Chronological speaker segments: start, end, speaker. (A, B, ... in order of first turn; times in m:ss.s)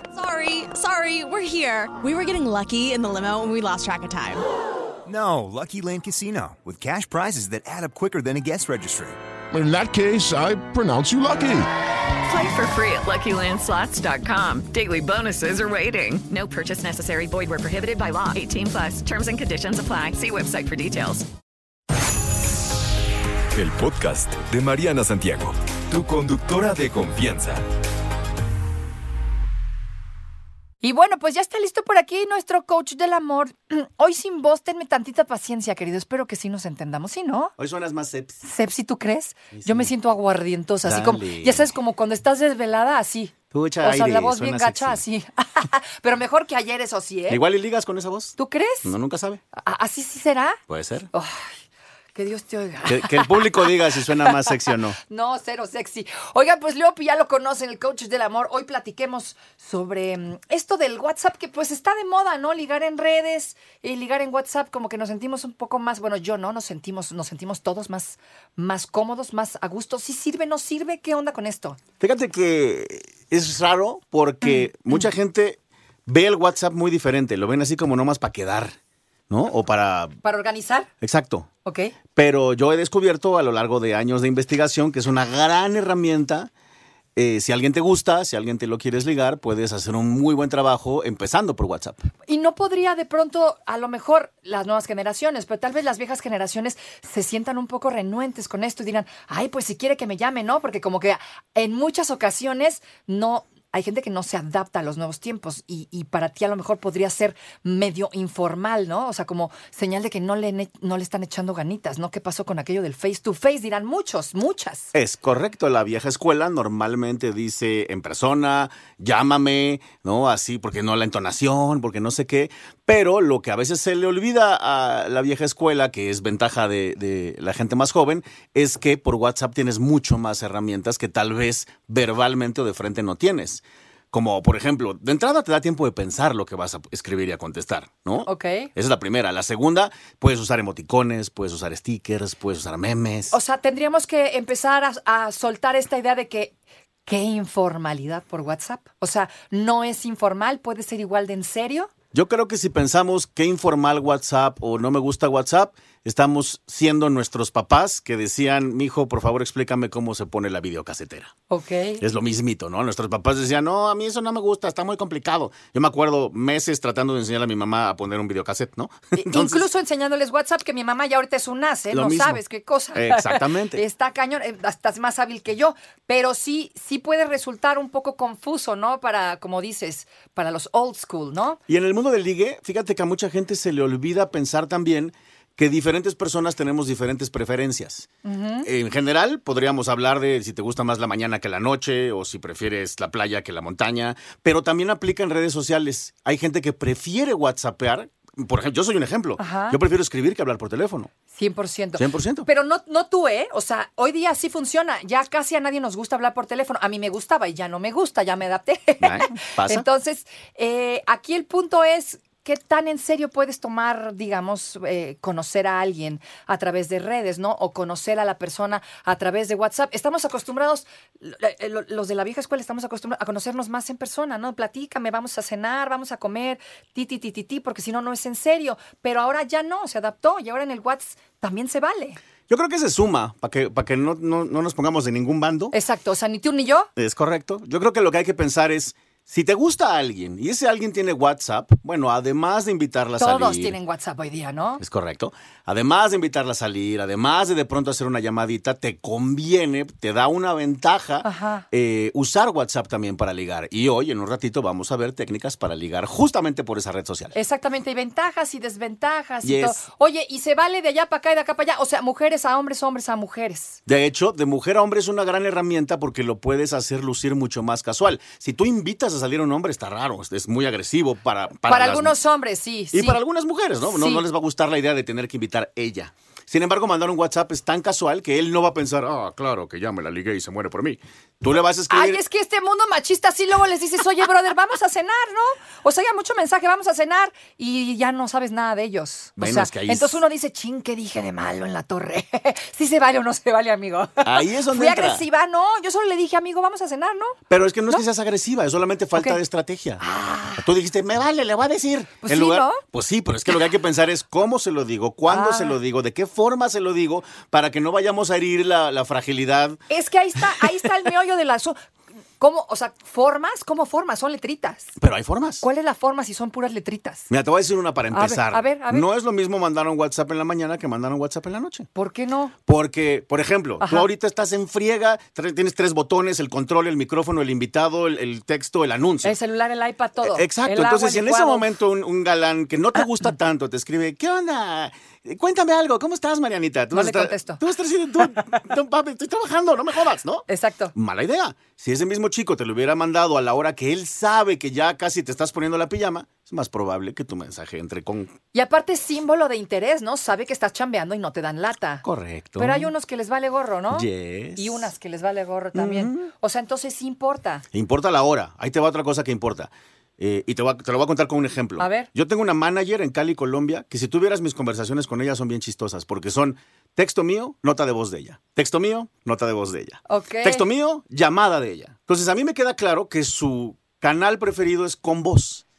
0:00.2-0:04.3 A
0:00.3-0:01.4 B
0:05.1-0:09.2 C
0:09.5-0:11.7 D
0:12.3-0:21.3 B
0:23.5-0:27.6 E
0:30.8-0:37.5 F
0:37.6-0:38.4 G
0:38.4-0:47.4 F
0:39.5-0:39.9 G
0:40.8-0:41.7 G
0:43.5-0:45.0 G
0:47.3-0:49.4 G
0:48.4-0:48.9 F
0:49.5-0:50.6 F
0:50.7-0:51.1 G
0:51.1-0:51.5 F
0:52.1-0:54.5 F
0:52.8-0:55.0 G
0:55.1-1:11.8 F
1:12.0-1:18.7 G
1:19.3-1:20.2 G
1:20.2-1:20.9 F
1:21.0-1:21.5 G
1:21.6-1:22.0 F
1:22.2-1:26.5 G
1:27.2-1:32.1 G
1:32.3-1:54.9 F
1:54.9-2:23.4 G
2:18.2-2:18.7 F
2:23.3-2:26.5 F
2:27.1-2:31.9 F
2:32.1-2:41.3 G
2:41.5-2:42.0 F
2:42.0-2:49.7 G
2:49.1-3:01.6 F
2:51.9-2:52.4 G
2:53.0-2:53.8 G
3:01.7-3:08.1 G
3:08.2-3:08.7 F
3:08.6-3:21.1 G
3:19.4-3:19.8 F
3:21.3-3:52.2 F
3:22.0-3:22.5 G
3:29.0-3:29.8 G
3:52.5-3:55.8 G
3:55.7-3:56.9 F
3:57.0-4:03.8 G
4:03.2-4:04.8 F
4:04.8-4:17.4 G
4:11.2-4:11.7 F
4:17.3-4:23.8 F
4:19.4-4:19.8 G
4:23.9-4:32.2 G
4:31.7-4:33.2 F
4:32.9-4:42.2 G
4:33.8-4:34.2 F
4:41.9-4:57.4 F
4:49.4-4:50.2 G
4:54.2-4:55.2 G
4:57.5-5:00.0 G
5:00.0-5:00.6 F
5:00.6-5:09.8 G
5:02.2-5:02.8 F
5:05.3-5:05.8 F
5:09.9-5:11.8 F
5:12.4-5:14.9 F
5:15.0-5:15.6 G
5:15.6-5:17.3 F
5:17.3-5:21.9 G
5:18.1-5:19.1 F
5:22.0-5:22.5 F
5:22.7-5:29.4 G
5:23.8-5:24.1 F
5:29.2-5:31.7 F
5:30.2-5:48.3 G
5:36.9-5:37.6 F
5:40.5-5:40.9 F
5:48.5-5:52.0 F
5:52.0-5:52.9 G
5:52.6-5:57.6 F
5:53.9-5:54.9 G
5:55.8-5:56.3 G
5:57.7-6:15.6 G
6:01.8-6:02.1 F
6:10.1-6:10.7 F